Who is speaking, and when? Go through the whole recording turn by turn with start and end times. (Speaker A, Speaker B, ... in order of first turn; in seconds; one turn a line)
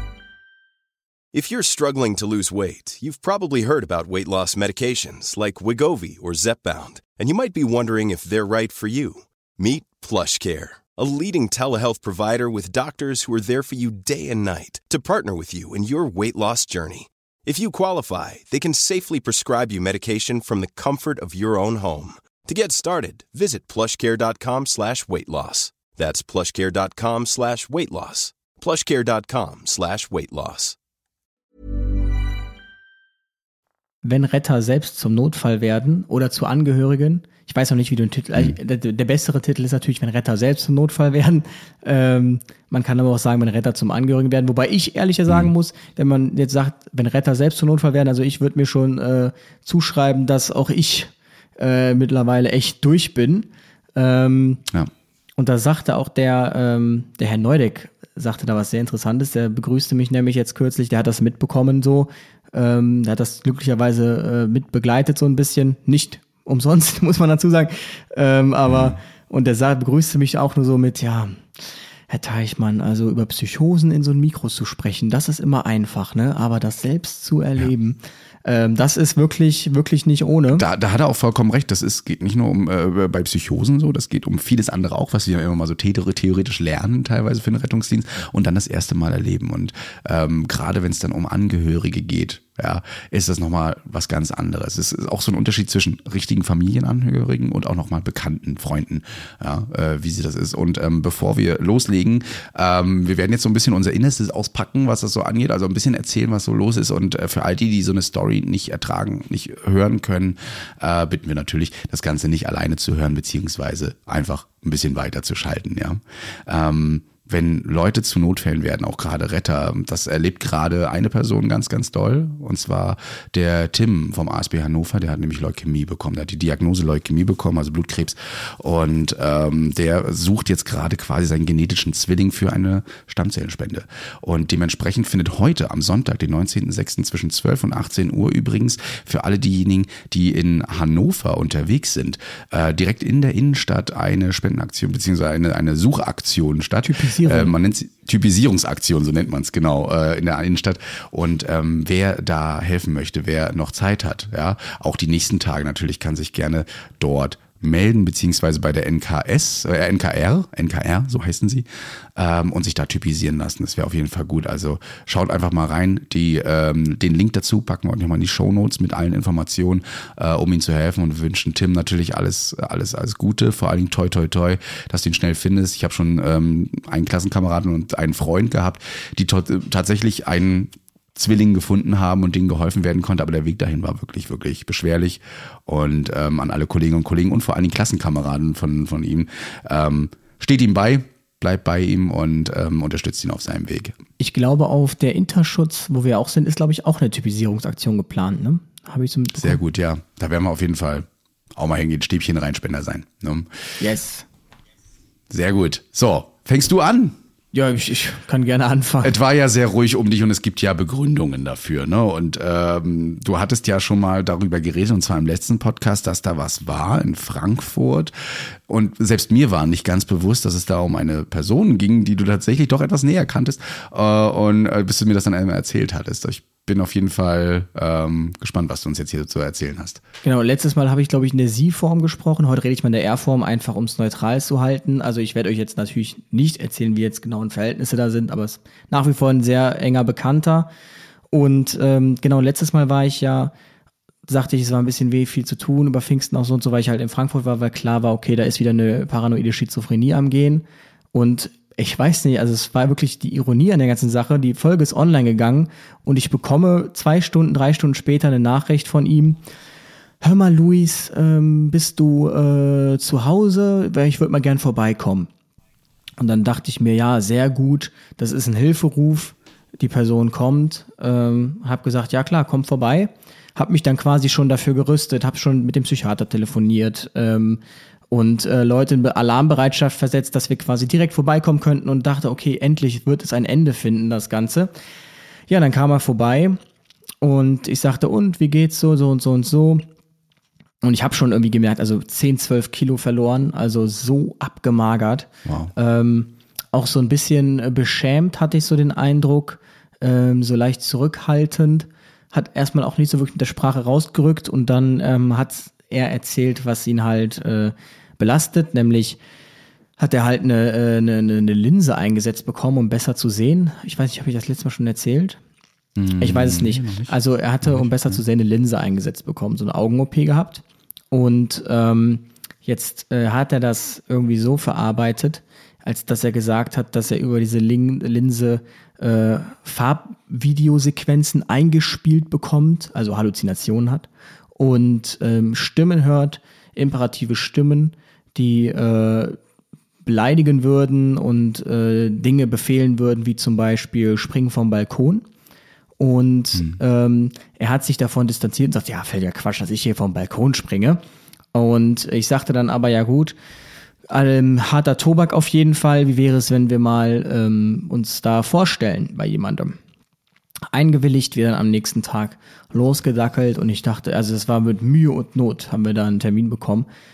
Speaker A: 1.3-30.8
Speaker B: 34.0-54.6
Speaker B: 55.4-71.5
Speaker B: 72.1-80.6
Speaker C: 80.5-194.0
Speaker B: 146.8-147.6
Speaker B: 194.2-199.6
Speaker C: 199.4-203.5
Speaker B: 203.8-204.2
Speaker C: 205.3-207.2
Speaker B: 207.5-209.2
Speaker C: 209.0-218.1
Speaker C: 218.7-230.0
Speaker B: 230.2-240.7
Speaker B: 241.3-243.5
Speaker B: 244.2-259.4
Speaker B: 260.2-265.3
Speaker B: 266.2-284.7
Speaker B: 285.5-286.6
Speaker B: 287.2-289.8
Speaker B: 290.8-309.2
Speaker C: 295.4-295.7
Speaker B: 310.0-315.4
Speaker C: 316.0-317.1
Speaker B: 316.2-339.4
Speaker C: 317.6-318.1
Speaker B: 340.0-345.2
Speaker B: 346.0-351.0
Speaker B: 351.5-353.4
Speaker B: 354.1-359.8
Speaker B: 360.7-366.9